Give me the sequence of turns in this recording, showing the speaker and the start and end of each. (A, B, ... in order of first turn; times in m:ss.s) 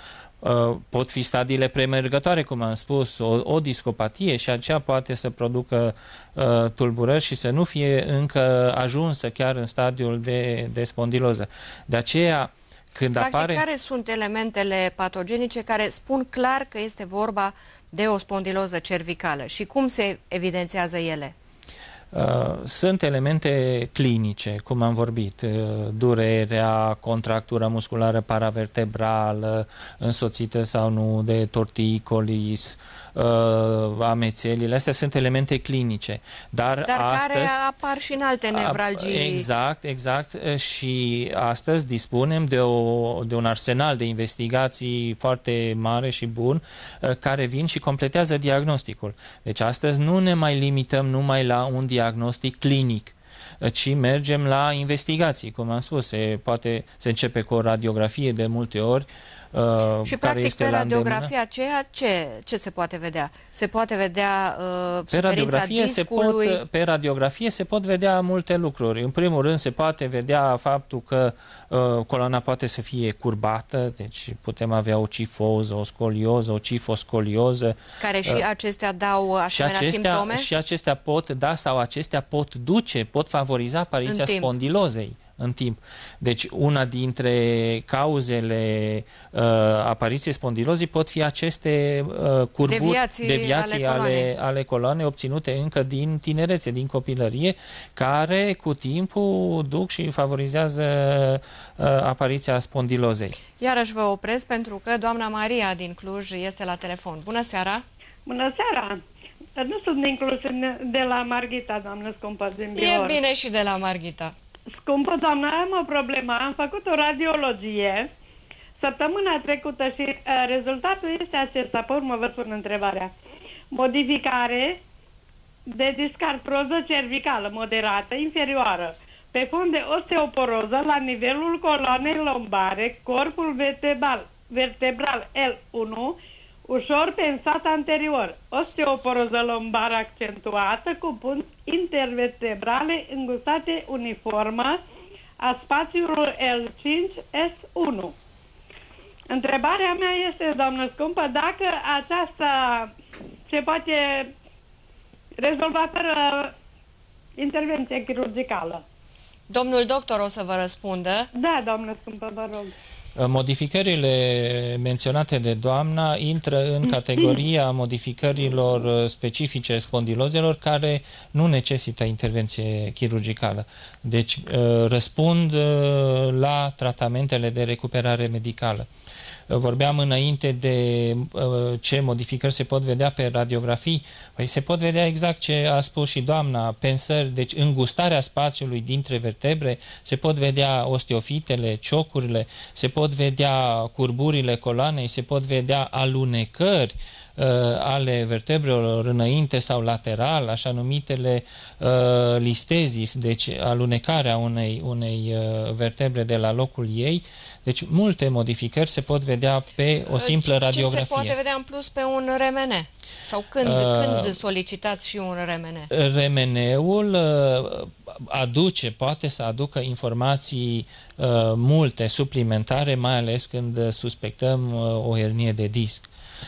0:00.4-0:13.6 A
0:13.2-0:21.3 B
0:22.1-0:37.5 A
0:36.9-0:39.5 B
0:38.5-1:01.3 A
1:00.1-1:06.6 B
1:05.1-1:18.4 A
1:18.0-1:20.5 B
1:19.5-1:43.4 A
1:24.1-1:24.5 B
1:32.7-1:34.3 B
1:43.6-1:47.8 B
1:48.3-1:49.0 C
1:49.6-1:53.2 C
1:52.8-1:54.4 B
1:54.8-1:58.1 C
1:58.8-2:03.1 C
2:03.7-2:04.8 C
2:05.7-2:24.8 C
2:25.4-2:28.2 C
2:29.3-2:32.9 C
2:33.5-2:34.3 C
2:35.4-2:36.5 C
2:37.4-2:38.8 C
2:39.5-2:41.3 B
2:41.3-2:42.7 C
2:43.2-2:58.9 A
2:59.5-3:31.4 A
3:30.1-3:35.9 B
3:33.6-3:34.4 A
3:35.9-3:46.1 A